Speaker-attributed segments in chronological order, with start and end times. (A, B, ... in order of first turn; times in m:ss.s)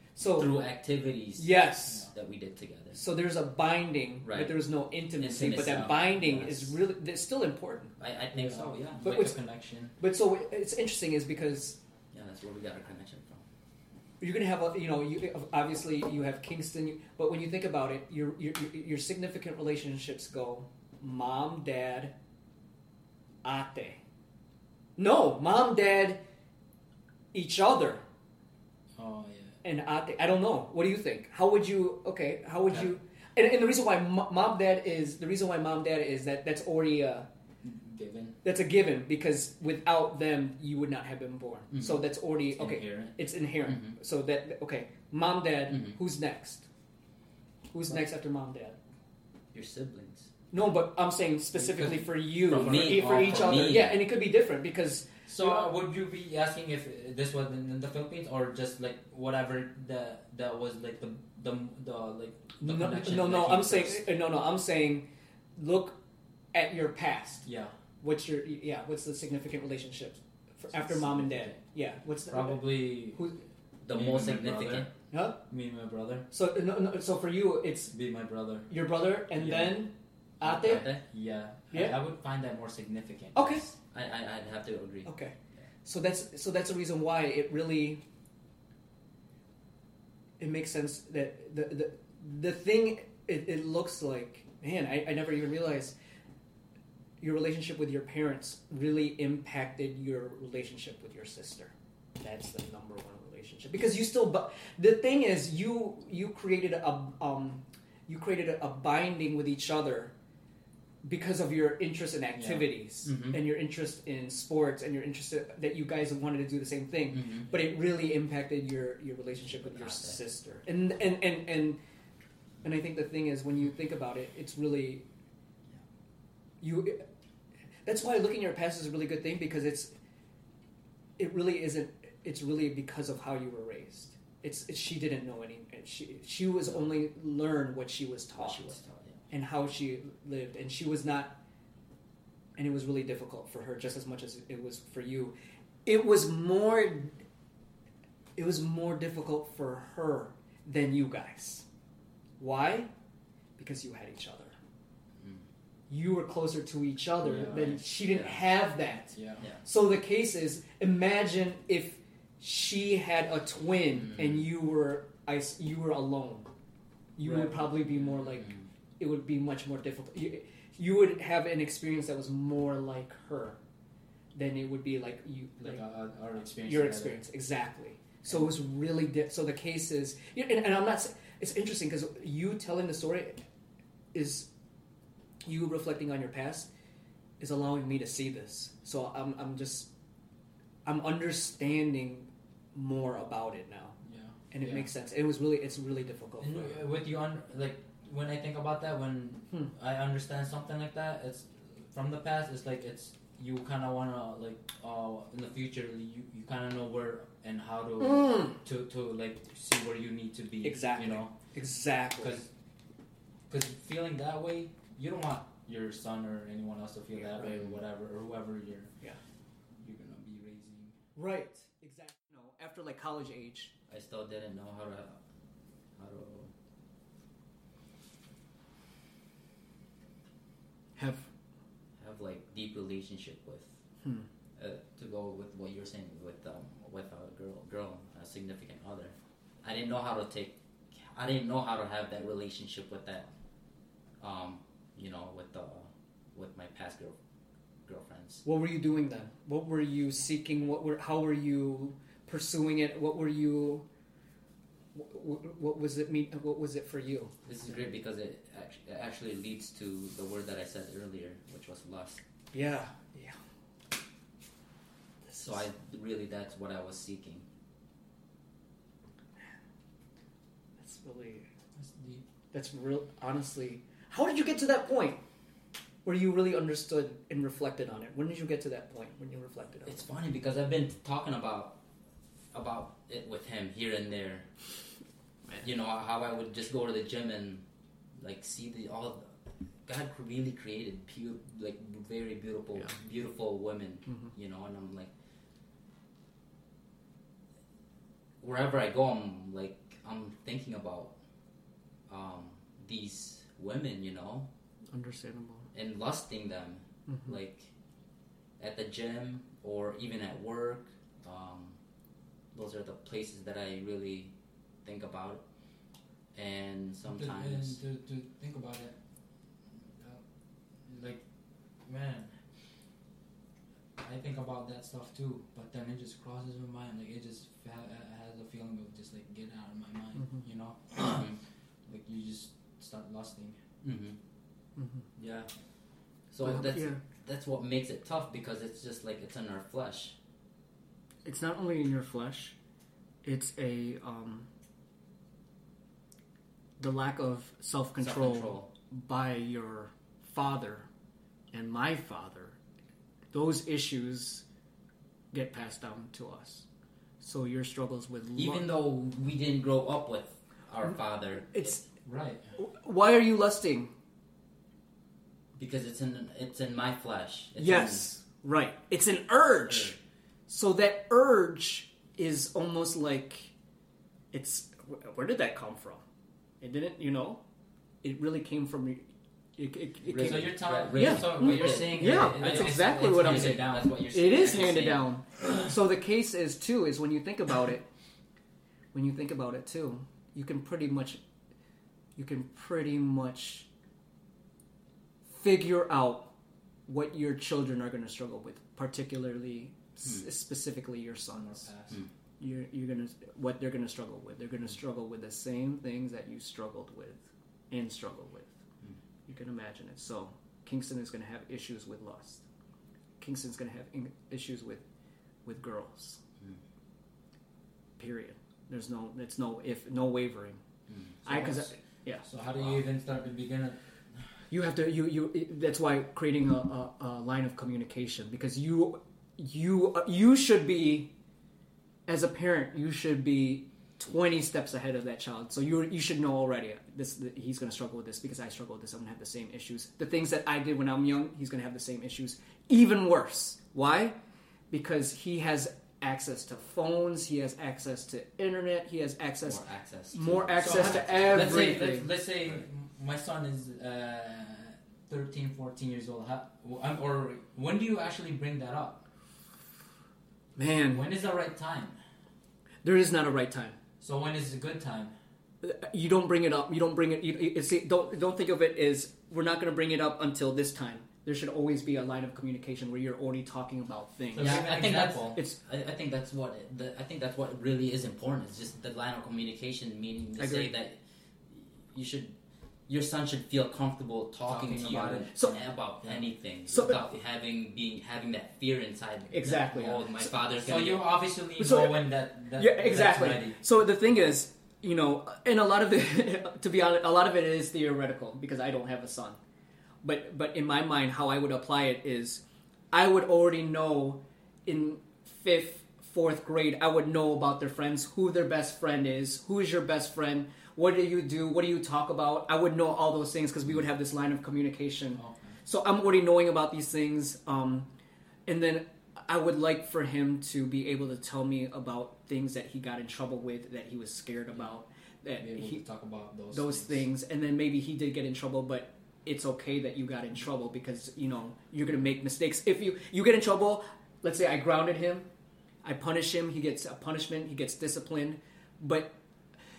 0:00.2-0:00.5 A
0:00.4-0:03.0 B
0:01.4-0:02.1 A
0:01.9-0:02.1 C
0:02.9-0:07.9 A
0:04.2-0:04.6 B
0:05.2-0:06.5 B
0:05.6-0:06.6 C
0:08.0-0:09.2 B
0:08.3-0:10.0 C
0:09.0-0:09.4 A
0:10.0-0:11.8 A
0:12.1-0:13.4 B
0:14.2-0:22.2 A
0:23.4-0:24.0 A
0:25.0-0:26.2 A
0:27.3-0:28.0 A
0:29.0-0:29.6 C
0:29.6-0:37.3 A
0:37.6-0:38.4 C
0:38.4-0:46.7 A
0:42.6-0:43.2 C
0:43.7-0:43.9 B
0:47.7-0:48.8 A
0:49.5-0:50.3 B
0:50.5-0:55.7 A
0:51.5-0:53.8 C
0:52.4-0:54.0 B
0:55.3-1:04.0 C
1:02.6-1:06.0 A
1:06.5-1:07.5 A
1:07.4-1:07.7 C
1:08.0-1:13.4 A
1:10.7-1:11.6 C
1:12.3-1:13.2 C
1:13.8-1:14.9 B
1:13.9-1:14.9 C
1:15.1-1:15.4 A
1:15.5-1:16.3 C
1:16.3-1:17.9 A
1:17.9-1:18.7 C
1:18.7-1:20.9 A
1:19.4-1:19.8 C
1:20.4-1:21.0 B
1:20.5-1:23.6 C
1:21.7-1:22.0 A
1:23.4-1:23.6 A
1:23.7-1:25.1 B
1:25.0-1:28.0 A
1:30.4-1:36.0 A
1:37.2-1:50.1 A
1:51.0-2:01.8 A
1:52.4-1:53.4 C
1:57.1-1:57.5 B
1:59.5-2:00.2 B
2:02.6-2:05.0 A
2:06.6-2:07.0 A
2:07.9-2:09.9 A
2:11.2-2:18.8 A
2:18.4-2:19.2 B
2:19.3-2:21.4 A
2:22.6-2:25.4 A
2:25.9-2:27.2 A
2:28.4-2:31.6 A
2:32.4-2:32.9 A
2:33.6-2:34.6 A
2:35.9-2:46.5 A
2:37.2-2:37.8 C
2:37.9-2:38.4 B
2:39.1-2:39.4 C
2:47.2-2:53.6 A
2:47.2-2:48.2 C
2:54.4-2:55.8 A
2:55.6-2:57.2 C
2:56.6-3:03.4 A
3:04.1-3:04.5 A
3:05.4-3:06.7 A
3:07.4-3:09.9 A
3:10.8-3:14.0 A
3:14.0-3:14.9 C
3:14.5-3:16.8 A
3:16.4-3:31.4 C
3:28.0-3:28.6 A
3:30.6-3:32.4 A
3:32.2-3:32.5 C
3:33.5-3:38.9 C
3:37.4-3:37.7 B
3:39.8-3:41.0 C
3:41.2-3:43.7 A
3:43.9-3:45.2 B
3:46.0-3:46.5 B
3:51.0-3:51.3 A
3:52.0-3:53.8 B
3:54.6-4:03.3 B
4:04.2-4:07.2 B
4:07.8-4:08.4 B
4:08.4-4:13.9 A
4:14.9-4:17.3 A
4:17.5-4:22.2 B
4:22.5-4:23.4 A
4:25.3-4:25.6 A
4:25.4-4:27.4 B
4:30.8-4:31.5 A
4:31.8-4:32.2 C
4:32.5-4:35.2 A
4:36.0-4:40.0 A
4:39.9-4:41.8 B
4:42.5-4:44.5 B
4:45.6-4:47.6 B
4:48.2-4:49.3 B
4:49.9-4:55.1 B
4:58.4-5:01.2 B
5:02.1-5:04.5 B
5:04.9-5:05.7 A
5:05.7-5:07.7 B
5:07.1-5:07.4 A
5:08.6-5:11.8 B
5:12.5-5:14.3 B
5:14.8-5:15.4 B
5:16.4-5:17.8 B
5:17.1-5:19.0 C
5:19.8-5:20.2 C
5:20.8-5:21.2 C
5:21.8-5:22.3 C
5:24.0-5:31.4 C
5:31.1-5:31.4 B
5:31.9-5:33.6 C
5:33.8-5:34.2 B
5:34.8-5:35.1 A
5:35.2-5:35.5 B
5:36.3-5:40.2 B
5:36.4-5:37.0 A
5:41.2-5:42.6 A
5:43.2-5:44.5 A
5:46.8-5:50.9 A
5:48.0-5:48.7 B
5:51.5-5:52.6 A
5:53.3-5:54.4 A
5:55.3-5:56.6 A
5:57.2-5:58.7 A
5:58.4-6:01.7 B
6:01.5-6:01.9 A
6:02.0-6:02.4 C
6:02.6-6:03.9 A
6:05.6-6:08.1 B
6:07.6-6:10.0 A
6:09.7-6:10.0 B
6:10.5-6:13.5 A
6:14.3-6:16.0 A
6:16.6-6:17.4 A
6:18.0-6:27.9 A
6:20.1-6:25.0 B
6:20.1-6:24.9 C
6:28.9-6:31.2 A
6:32.2-6:33.7 A
6:35.3-6:36.3 A
6:36.9-6:41.7 A
6:41.3-6:42.0 C
6:42.4-6:48.6 A
6:49.3-6:52.4 A
6:53.2-6:54.8 A
6:55.4-6:56.2 A
6:58.0-7:00.6 A
7:00.9-7:01.5 B
7:01.2-7:01.7 C
7:01.2-7:02.2 A
7:02.2-7:03.8 C
7:04.5-7:11.1 A
7:12.1-7:24.2 A
7:24.7-7:32.1 A
7:29.4-7:31.9 B
7:30.6-7:39.0 C
7:40.6-7:41.1 A
7:40.9-7:42.0 C
7:42.8-7:43.8 A
7:44.0-7:45.1 C
7:45.6-7:54.8 A
7:54.3-7:55.4 C
7:54.4-8:02.4 B
8:00.4-8:00.7 A
8:02.9-8:11.0 B
8:04.5-8:06.3 C
8:06.7-8:07.0 A
8:09.3-8:10.1 A
8:10.6-8:13.6 C
8:11.6-8:19.4 A
8:20.0-8:37.9 A
8:35.2-8:35.5 C
8:38.5-8:45.8 A
8:45.4-8:47.0 C
8:46.5-8:55.3 A
8:55.8-8:59.2 A